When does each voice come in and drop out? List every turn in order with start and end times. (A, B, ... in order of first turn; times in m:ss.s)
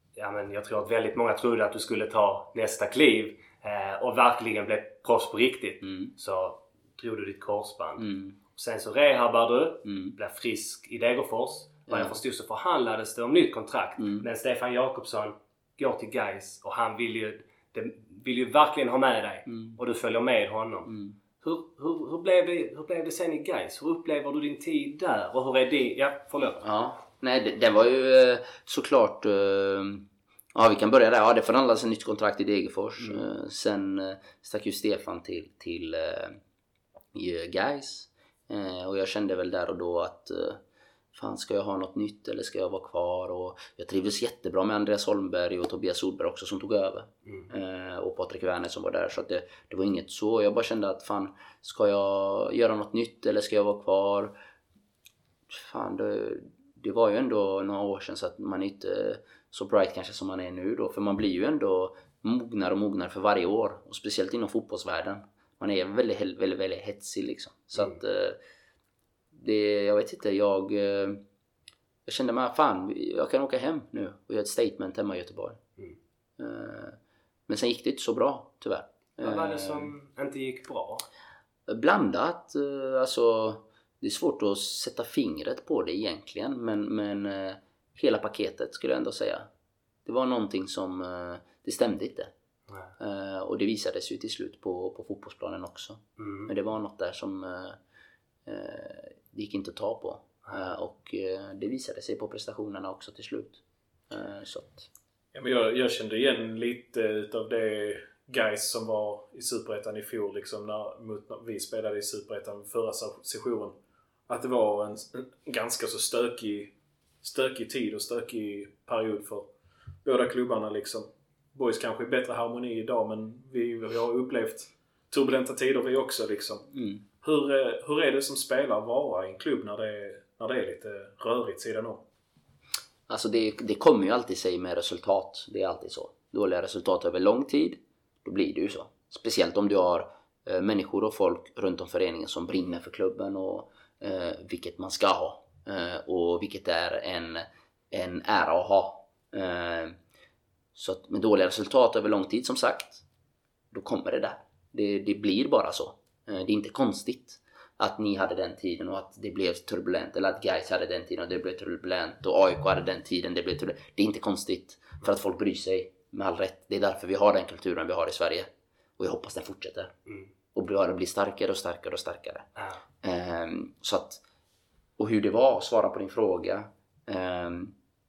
0:00.2-0:26.6 A
0:05.8-0:06.1 B
0:08.0-0:08.4 B
0:09.8-0:10.2 B
0:11.9-0:12.2 B
0:14.0-0:14.3 B
0:19.5-0:19.8 B
0:20.9-0:21.2 B
0:26.6-0:36.4 B
0:33.0-0:33.2 A
0:37.1-0:40.6 B
0:41.1-0:54.3 B
0:55.5-1:08.4 B
1:09.3-1:11.2 B
1:12.1-1:15.6 B
1:16.4-1:19.9 B
1:19.2-1:21.0 A
1:21.7-1:29.5 B
1:30.0-1:32.3 B
1:33.0-1:37.8 B
1:36.2-1:36.5 A
1:38.5-1:44.9 B
1:45.3-1:53.7 C
1:54.3-1:56.7 C
1:57.2-1:59.5 C
2:00.0-2:06.7 C
2:06.7-2:07.0 B
2:07.2-2:12.0 C
2:13.1-2:30.0 B
2:30.8-2:33.0 B
2:33.7-2:49.9 B
2:50.5-2:52.5 B
2:53.0-2:54.2 B
2:55.0-2:57.7 B